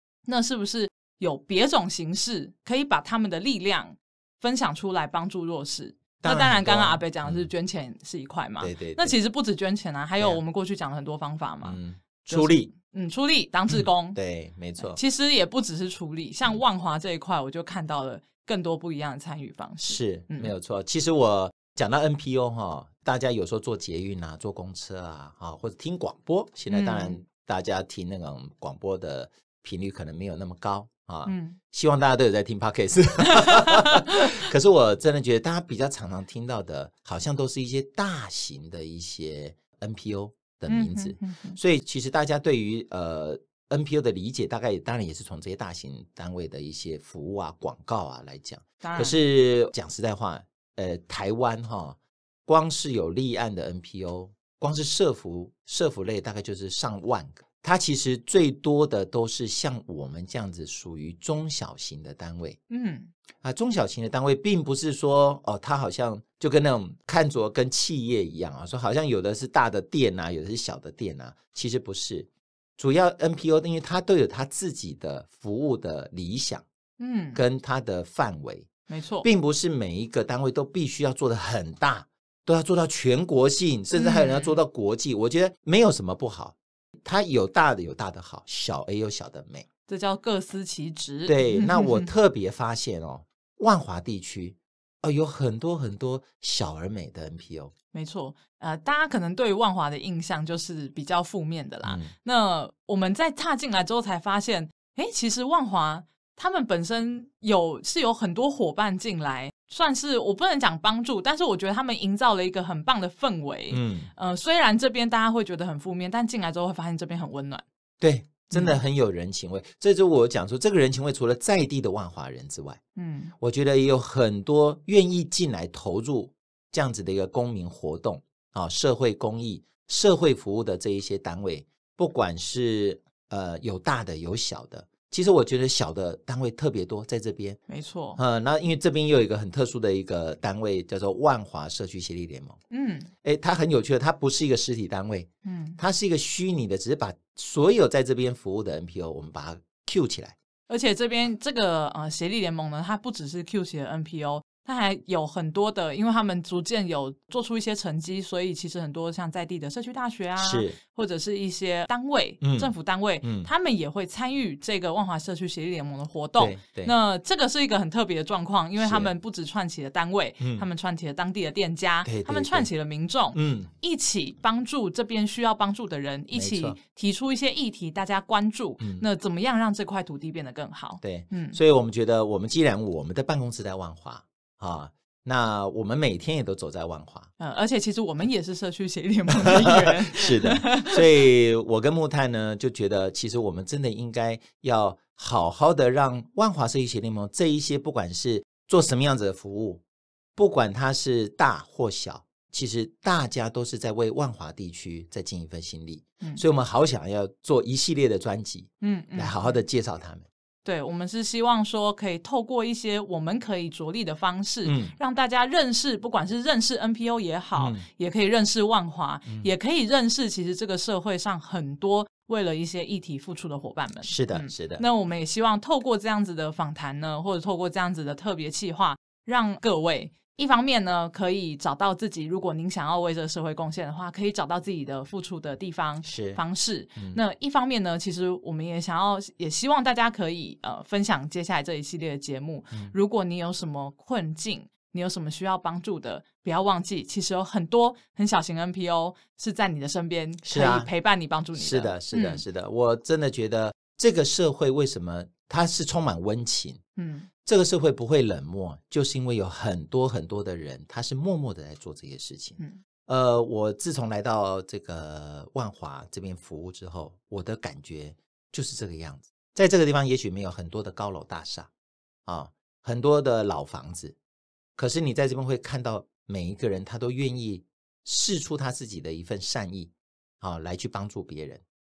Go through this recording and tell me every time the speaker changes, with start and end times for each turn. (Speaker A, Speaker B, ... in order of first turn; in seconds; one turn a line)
Speaker A: 0.3-14.2
Speaker B: 6.2-7.5
Speaker B: 8.6-9.2
Speaker B: 11.6-12.7
Speaker B: 13.7-15.0
Speaker A: 14.8-20.5
Speaker B: 19.8-62.6
Speaker A: 26.7-27.2
Speaker A: 31.2-31.6
Speaker A: 33.3-34.3
Speaker A: 40.7-41.6
Speaker A: 48.8-49.2
Speaker A: 62.7-63.1
Speaker B: 63.4-76.6
Speaker A: 77.0-77.4
Speaker B: 77.3-78.7
Speaker A: 78.9-79.2
Speaker B: 79.2-89.7
Speaker A: 83.9-84.6
Speaker A: 89.9-92.1
Speaker B: 91.2-97.7
Speaker A: 97.9-117.6
Speaker B: 101.8-102.1
Speaker B: 113.7-114.1
Speaker B: 118.0-122.8
Speaker A: 118.5-118.8
Speaker A: 123.0-123.3
Speaker B: 123.4-137.6
Speaker A: 137.7-138.2
Speaker B: 138.2-142.6
Speaker A: 142.7-143.1
Speaker B: 143.2-150.3
Speaker A: 145.4-145.8
Speaker A: 150.7-181.6
Speaker B: 160.4-160.8
Speaker B: 162.4-162.7
Speaker B: 163.2-163.5
Speaker B: 166.4-166.9
Speaker B: 168.8-169.1
Speaker B: 170.4-170.7
Speaker B: 172.0-172.7
Speaker B: 173.3-173.7
Speaker B: 176.3-176.8
Speaker B: 178.8-179.0
Speaker B: 181.0-187.3
Speaker A: 187.4-191.0
Speaker B: 189.3-199.8
Speaker B: 200.3-210.2
Speaker A: 208.8-209.6
Speaker A: 210.6-252.4
Speaker B: 214.6-214.9
Speaker B: 217.6-217.8
Speaker B: 224.0-224.8
Speaker B: 236.0-236.4
Speaker B: 250.4-250.9
Speaker B: 251.6-256.8
Speaker A: 257.0-257.3
Speaker B: 257.4-271.7
Speaker B: 272.2-274.1
Speaker B: 274.8-281.6